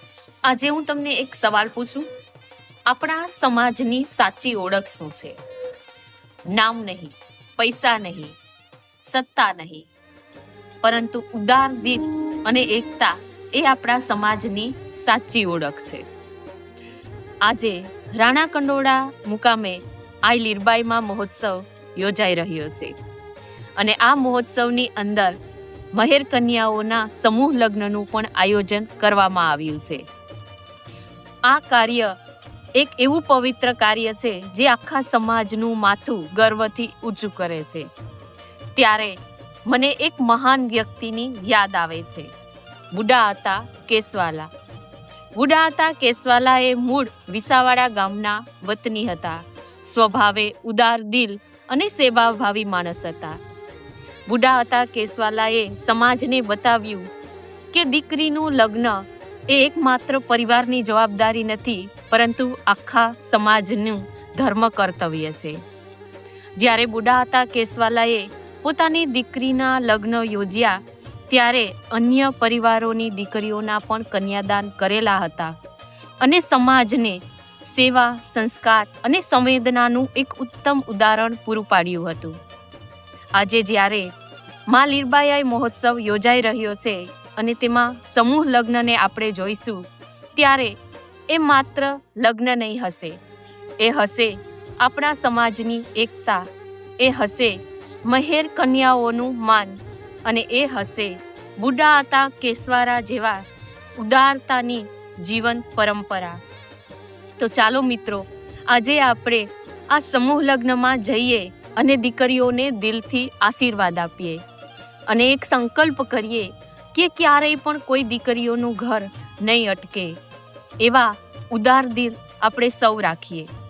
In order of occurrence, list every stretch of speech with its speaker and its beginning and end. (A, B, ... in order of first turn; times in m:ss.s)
0:00.4-0:02.1 A
0:02.9-0:05.4 A
0:06.5-0:08.4 A
0:09.1-0:09.9 A
0:10.8-0:16.0 A
0:17.4-0:22.9 A
0:23.8-0:25.4 A
0:25.9-0:30.0 A
0:31.4-0:32.1 A
0:32.8-0:37.9 A
0:38.8-0:39.2 A
0:39.7-0:42.3 A
0:42.9-0:44.5 A
0:45.4-0:53.4 A
0:54.3-0:57.1 A
0:57.7-1:05.6 A
1:06.6-1:15.5 A
1:16.2-1:22.4 A
1:23.4-1:24.1 A
1:24.7-1:29.8 A
1:30.4-1:30.7 A
1:31.3-1:33.2 A
1:33.8-1:36.4 A
1:37.0-1:43.4 A
1:44.0-1:46.4 A
1:47.4-1:54.4 A
1:55.1-2:00.2 A
2:00.8-2:03.5 A